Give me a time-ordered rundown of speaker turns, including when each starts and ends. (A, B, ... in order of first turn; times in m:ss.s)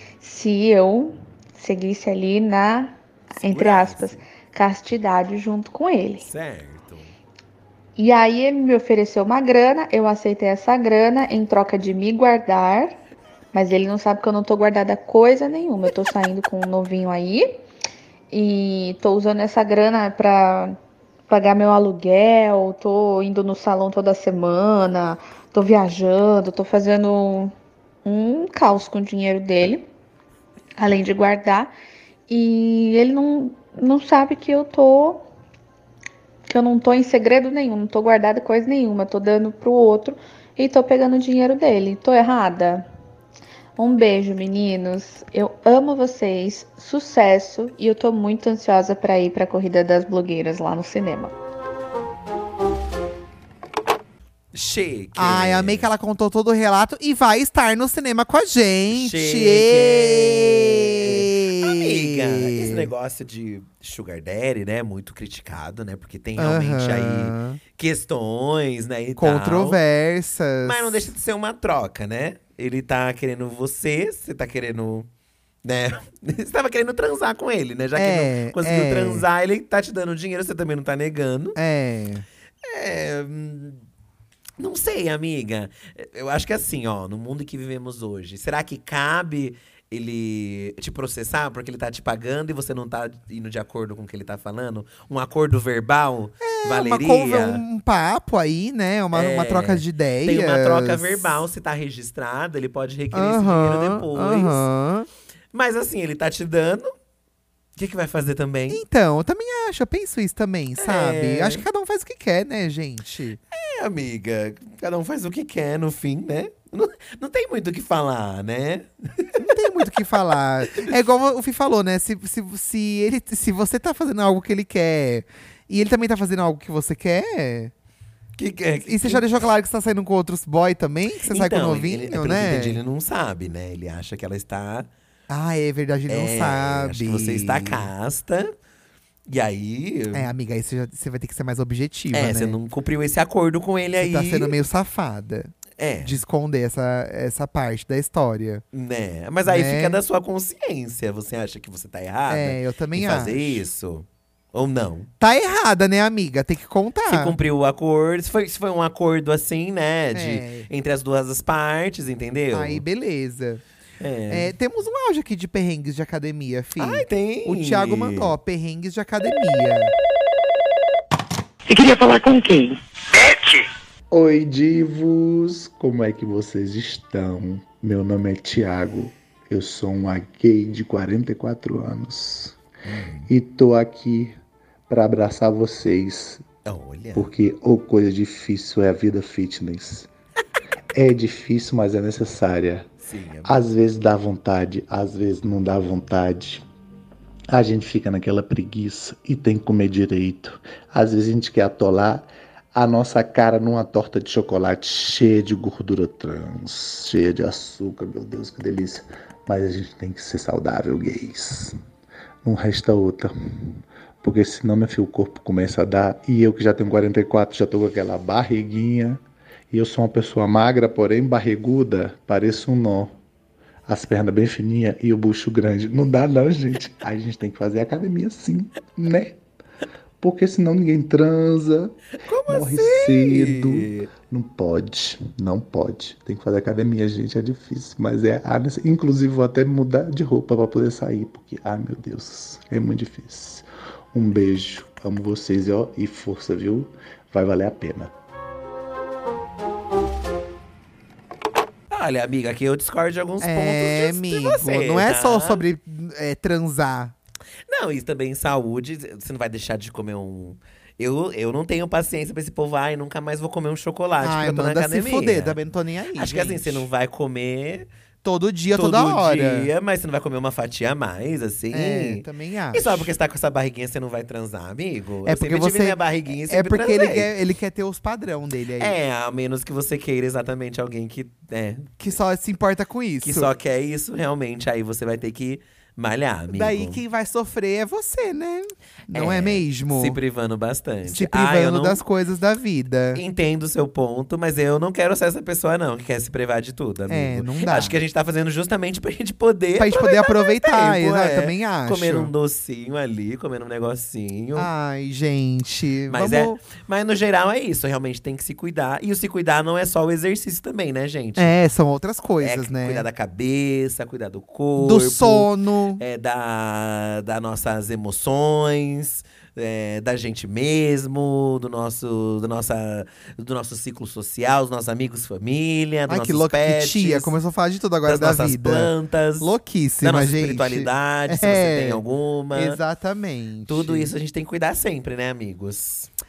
0:00.2-0:06.3 A
0:03.5-0:04.2 B
0:06.2-0:07.1 B
0:08.0-0:13.0 A
0:13.5-0:17.6 A
0:18.3-0:20.8 A
0:21.3-0:27.5 A
0:28.0-0:29.8 A
0:30.8-0:31.7 A
0:32.3-0:35.2 A
0:36.5-0:42.8 A
0:43.8-0:51.3 A
0:54.5-0:55.9 B
0:55.2-1:02.9 C
0:58.9-1:09.8 B
1:06.4-1:07.6 C
1:09.2-1:11.0 C
1:10.6-1:15.1 B
1:15.6-1:21.6 B
1:17.9-1:19.2 C
1:21.6-1:22.2 C
1:22.6-1:23.8 B
1:24.6-1:37.6 B
1:36.4-1:41.3 C
1:39.1-1:44.7 B
1:43.1-1:45.1 C
1:45.5-1:46.9 B
1:47.8-1:48.8 B
1:48.7-1:53.4 C
1:50.8-1:51.6 B
1:53.5-1:59.5 B
1:59.3-2:07.7 C
2:08.4-2:09.3 B
2:08.8-2:12.8 C
2:11.3-2:14.9 B
2:15.3-2:17.9 C
2:16.1-2:18.5 B
2:19.3-2:20.3 B
2:20.1-2:22.6 C
2:22.1-2:24.5 B
2:24.0-2:28.6 C
2:25.8-2:26.2 B
2:28.7-2:35.1 B
2:29.4-2:30.0 C
2:32.3-2:33.6 C
2:35.2-2:37.4 C
2:37.0-2:42.8 B
2:40.1-2:40.7 C
2:42.5-2:43.6 C
2:44.0-2:44.5 B
2:44.3-2:49.9 C
2:46.8-2:48.3 B
2:51.7-2:53.7 D
2:54.1-3:02.6 E
3:02.8-3:03.3 B
3:03.3-3:04.3 E
3:04.9-3:06.4 E
3:06.6-3:07.3 B
3:07.2-3:10.1 E
3:10.9-3:12.9 E
3:13.0-3:13.6 B
3:13.4-3:16.6 E
3:17.5-3:31.8 E
3:32.4-3:43.2 E
3:43.8-3:49.4 E
3:50.2-4:08.1 E
3:52.2-3:54.1 B
4:11.9-4:15.6 B
4:13.4-4:17.1 C
4:17.7-4:25.6 B
4:24.2-4:26.8 C
4:26.1-4:27.9 B
4:28.2-4:29.7 C
4:28.7-4:37.3 B
4:31.7-4:33.1 C
4:35.2-4:39.0 C
4:38.8-4:42.1 B
4:42.0-4:43.5 C
4:43.2-4:47.0 B
4:46.5-4:50.2 C
4:49.1-4:52.0 B
4:51.0-4:53.2 C
4:53.1-5:04.7 B
4:57.1-4:58.0 C
4:59.8-5:02.3 C
5:04.6-5:06.6 C
5:06.1-5:11.6 B
5:11.4-5:13.0 C
5:12.4-5:27.3 B
5:14.8-5:16.0 C
5:26.1-5:32.0 C
5:28.0-5:29.5 B
5:30.0-5:32.8 B
5:32.5-5:34.1 C
5:33.7-5:36.1 B